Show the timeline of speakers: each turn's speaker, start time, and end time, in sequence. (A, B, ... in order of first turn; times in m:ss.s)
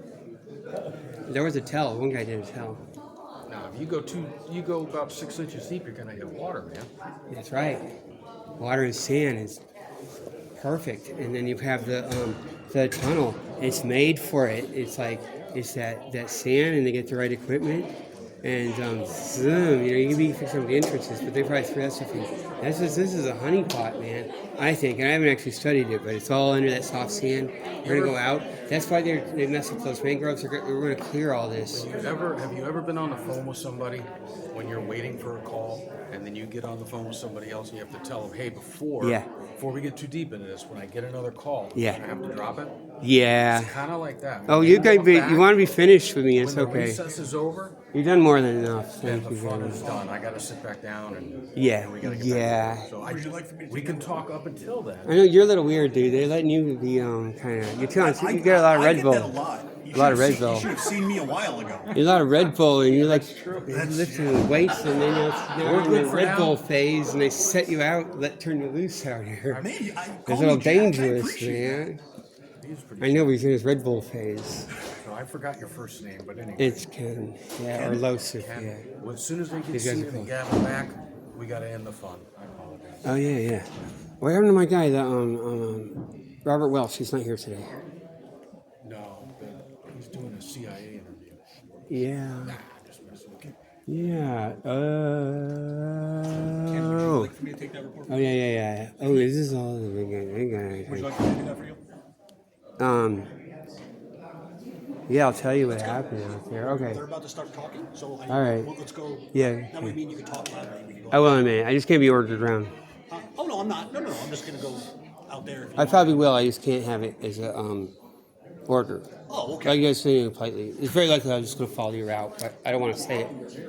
0:01.3-0:02.8 A
0:03.5-0:06.9 B
0:07.3-0:07.9 A
0:08.6-0:09.6 A
0:10.6-0:17.9 A
0:18.4-0:31.9 A
0:27.8-0:28.2 B
0:31.7-0:42.7 B
0:39.0-0:39.3 A
0:41.7-0:42.0 A
0:43.0-0:43.7 A
0:43.5-0:45.5 B
0:44.5-0:47.0 A
0:46.3-0:47.8 B
0:47.9-0:49.9 A
0:49.0-0:55.2 B
0:51.6-0:52.9 A
0:53.0-0:54.2 C
0:55.0-0:59.4 A
0:57.9-1:02.0 C
0:59.9-1:00.7 A
1:01.9-1:09.6 A
1:02.0-1:04.6 B
1:03.7-1:04.3 C
1:05.6-1:06.6 B
1:09.5-1:09.8 B
1:09.6-1:11.8 C
1:10.2-1:12.0 A
1:12.6-1:13.4 B
1:13.0-1:14.7 A
1:15.0-1:16.8 B
1:16.6-1:18.9 A
1:17.7-1:23.3 B
1:19.7-1:20.3 A
1:23.0-1:23.7 A
1:24.2-1:27.7 A
1:28.8-1:31.4 B
1:31.9-1:32.6 A
1:32.2-1:33.5 B
1:33.9-1:37.3 A
1:36.6-1:38.4 C
1:38.1-1:41.2 A
1:40.8-1:41.8 C
1:42.8-1:43.3 A
1:45.1-1:47.0 A
1:45.7-1:51.4 C
1:48.3-1:48.7 A
1:49.3-1:50.0 A
1:51.1-1:52.7 A
1:53.1-1:56.3 C
1:55.8-1:57.9 A
1:58.7-1:59.1 A
1:59.3-1:59.8 C
1:59.6-2:03.3 A